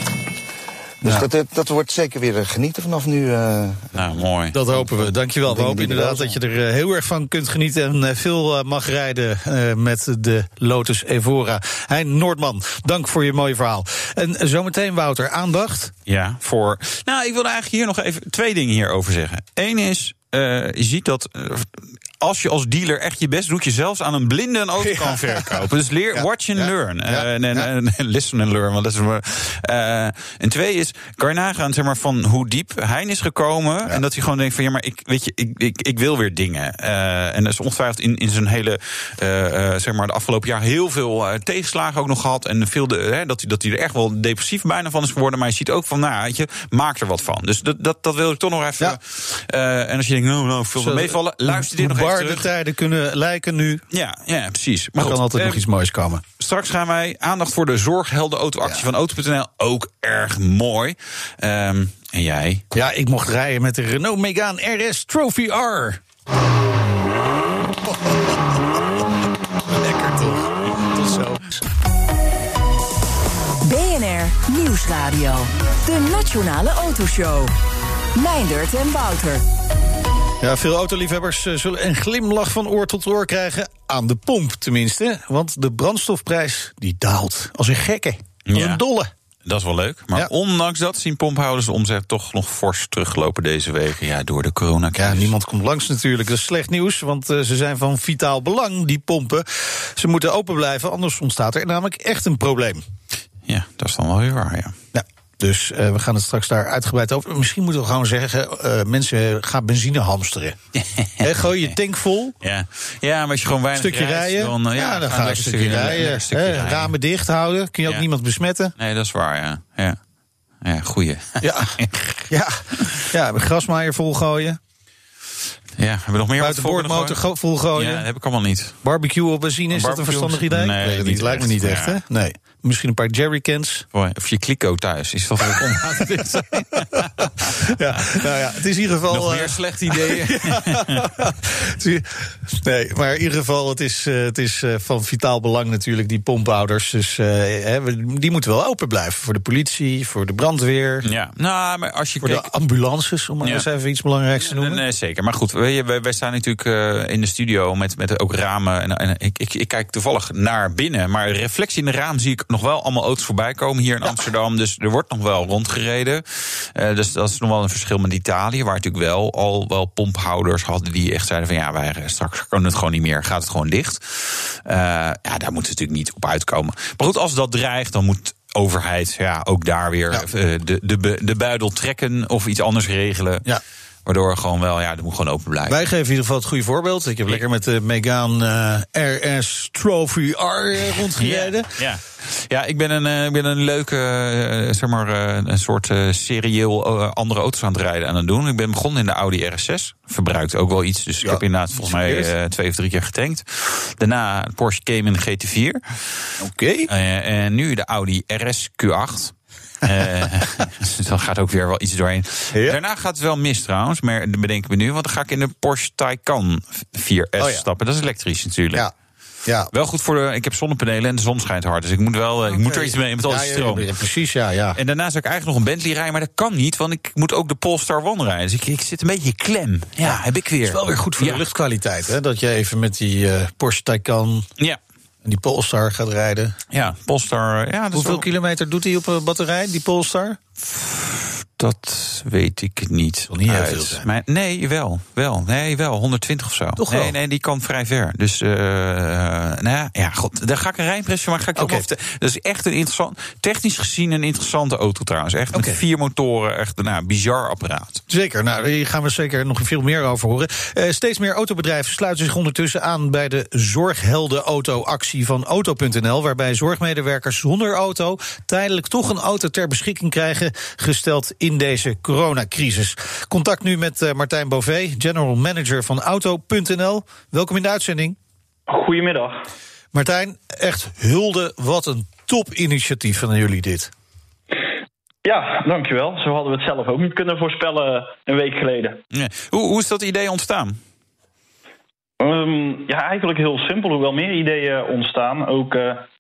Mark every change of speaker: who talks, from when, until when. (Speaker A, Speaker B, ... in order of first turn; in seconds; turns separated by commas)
Speaker A: 1.0-3.9, Speaker B: 3.9-4.6, Speaker C: 4.5-15.9, Speaker A: 4.7-6.4, Speaker B: 16.1-52.5, Speaker C: 24.8-27.7, Speaker C: 50.8-53.8, Speaker B: 53.9-55.6, Speaker C: 55.0-56.2, Speaker B: 56.4-62.7, Speaker C: 62.7-66.0, Speaker C: 67.9-68.4, Speaker C: 69.7-71.6, Speaker D: 73.6-77.5, Speaker D: 78.2-79.4, Speaker C: 80.4-89.1, Speaker B: 88.5-88.8, Speaker B: 89.5-95.3, Speaker C: 95.0-102.8, Speaker B: 103.5-104.8, Speaker C: 104.9-110.6, Speaker B: 110.8-111.8, Speaker C: 111.2-112.3, Speaker B: 112.4-116.9, Speaker C: 113.8-118.7, Speaker B: 118.8-120.0, Speaker B: 120.6-122.3, Speaker C: 121.4-121.8, Speaker C: 122.3-124.6, Speaker B: 125.8-127.2, Speaker C: 126.4-128.1, Speaker B: 127.8-128.8, Speaker C: 128.8-133.9, Speaker B: 129.7-132.0, Speaker B: 133.9-138.2, Speaker C: 135.5-151.1, Speaker B: 139.1-141.1, Speaker B: 151.0-152.5, Speaker C: 152.2-154.8, Speaker B: 154.4-183.4, Speaker B: 184.1-185.8, Speaker C: 185.7-191.7, Speaker B: 191.2-206.3, Speaker C: 201.2-202.3, Speaker C: 206.4-206.9, Speaker B: 206.9-218.9, Speaker C: 217.4-217.7, Speaker C: 219.4-219.7, Speaker B: 219.7-223.9, Speaker C: 222.5-224.8, Speaker B: 224.8-231.4, Speaker C: 230.0-234.5, Speaker C: 235.2-236.6, Speaker B: 236.7-238.2, Speaker C: 237.9-240.4, Speaker B: 240.6-258.0, Speaker C: 243.3-244.1, Speaker C: 246.8-247.1, Speaker C: 251.6-251.9, Speaker C: 255.5-255.8, Speaker C: 258.1-278.2, Speaker E: 278.7-279.4, Speaker C: 279.9-283.9, Speaker E: 285.2-289.0, Speaker B: 289.1-290.8, Speaker E: 292.2-296.1